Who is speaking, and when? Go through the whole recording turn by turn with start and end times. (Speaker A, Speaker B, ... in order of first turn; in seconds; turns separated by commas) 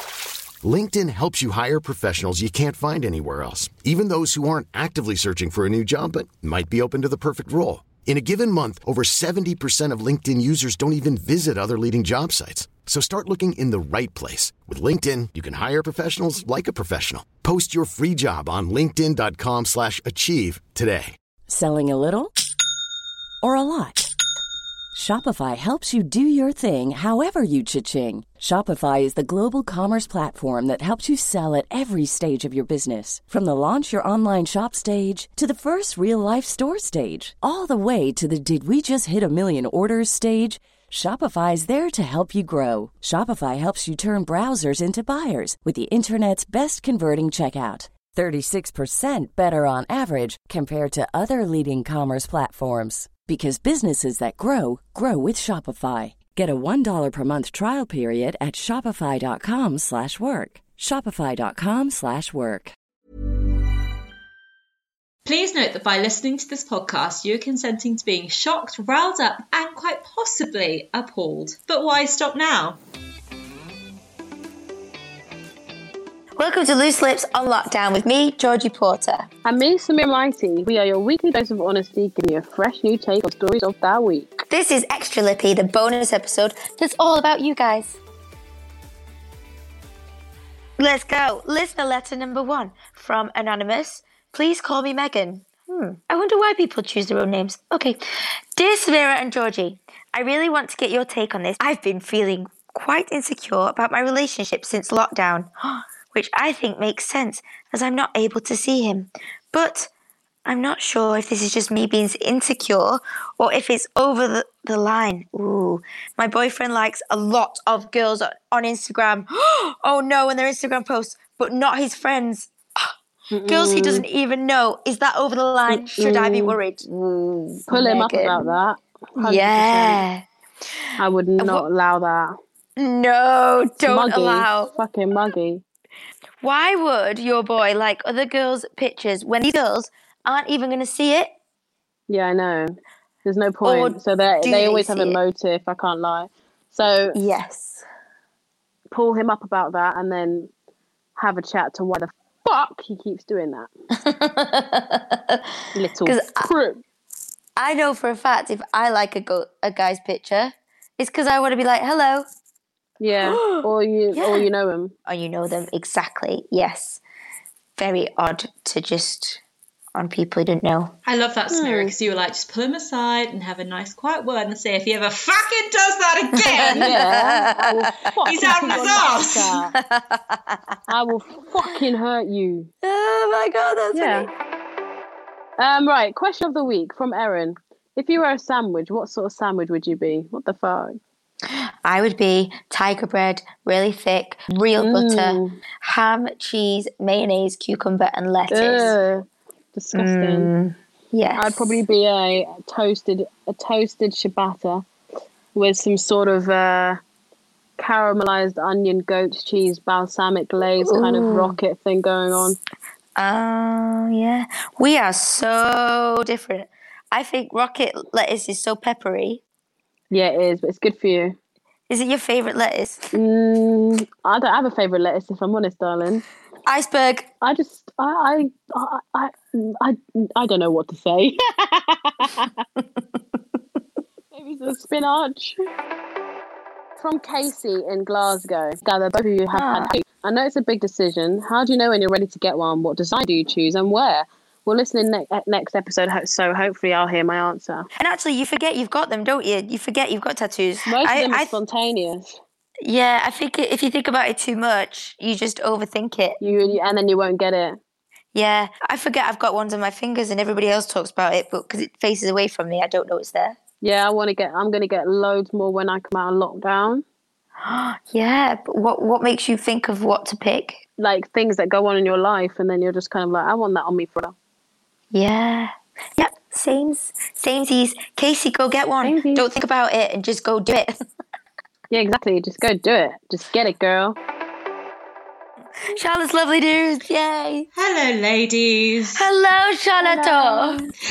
Speaker A: 0.6-21.1, Speaker B: 21.5-22.3, Speaker B: 23.4-24.1, Speaker B: 24.9-62.7, Speaker C: 65.2-72.8, Speaker D: 76.4-79.3, Speaker E: 79.5-84.4, Speaker D: 84.5-88.0, Speaker D: 90.8-98.0, Speaker D: 98.6-109.9, Speaker D: 110.5-122.9, Speaker E: 123.3-124.0, Speaker D: 123.5-128.5, Speaker E: 125.7-126.6, Speaker E: 127.7-130.1, Speaker D: 129.2-130.2, Speaker E: 131.0-132.3, Speaker D: 131.4-131.7, Speaker D: 132.8-134.7, Speaker E: 133.8-135.6, Speaker D: 136.4-141.3, Speaker E: 142.1-147.2, Speaker D: 143.6-145.2, Speaker D: 147.2-147.8, Speaker E: 148.9-150.5, Speaker E: 151.2-153.7, Speaker D: 154.0-156.5, Speaker E: 155.8-156.8, Speaker D: 157.6-162.2, Speaker E: 163.0-164.9, Speaker D: 163.2-164.5, Speaker D: 165.1-167.0, Speaker D: 167.8-169.4, Speaker D: 169.9-170.9, Speaker C: 171.1-177.1, Speaker E: 171.5-171.9, Speaker D: 176.3-178.9, Speaker E: 176.8-179.7, Speaker C: 178.2-179.7, Speaker D: 179.8-180.8, Speaker E: 180.9-182.7, Speaker D: 182.8-184.3, Speaker E: 183.9-184.3, Speaker E: 185.6-191.0, Speaker D: 191.5-198.9, Speaker E: 194.8-195.6, Speaker E: 198.5-200.5, Speaker D: 199.9-201.8, Speaker E: 201.4-204.8, Speaker E: 205.6-207.0, Speaker E: 207.8-212.6, Speaker D: 210.8-211.6, Speaker D: 213.2-219.4, Speaker E: 220.1-221.4, Speaker D: 221.9-223.1, Speaker E: 223.1-226.2, Speaker D: 226.7-227.3, Speaker E: 227.4-232.4, Speaker D: 232.8-233.2, Speaker E: 234.3-235.6, Speaker E: 237.0-247.9, Speaker D: 239.5-239.9, Speaker D: 248.0-251.6, Speaker E: 250.9-252.4, Speaker D: 252.8-256.4, Speaker E: 256.4-257.8, Speaker D: 258.3-263.6, Speaker E: 263.8-267.0, Speaker D: 267.6-270.8, Speaker E: 271.0-274.4, Speaker D: 275.1-280.9, Speaker E: 279.0-279.4, Speaker E: 281.9-284.2, Speaker D: 285.9-287.7, Speaker C: 287.8-289.3, Speaker D: 289.2-290.9, Speaker E: 290.1-290.8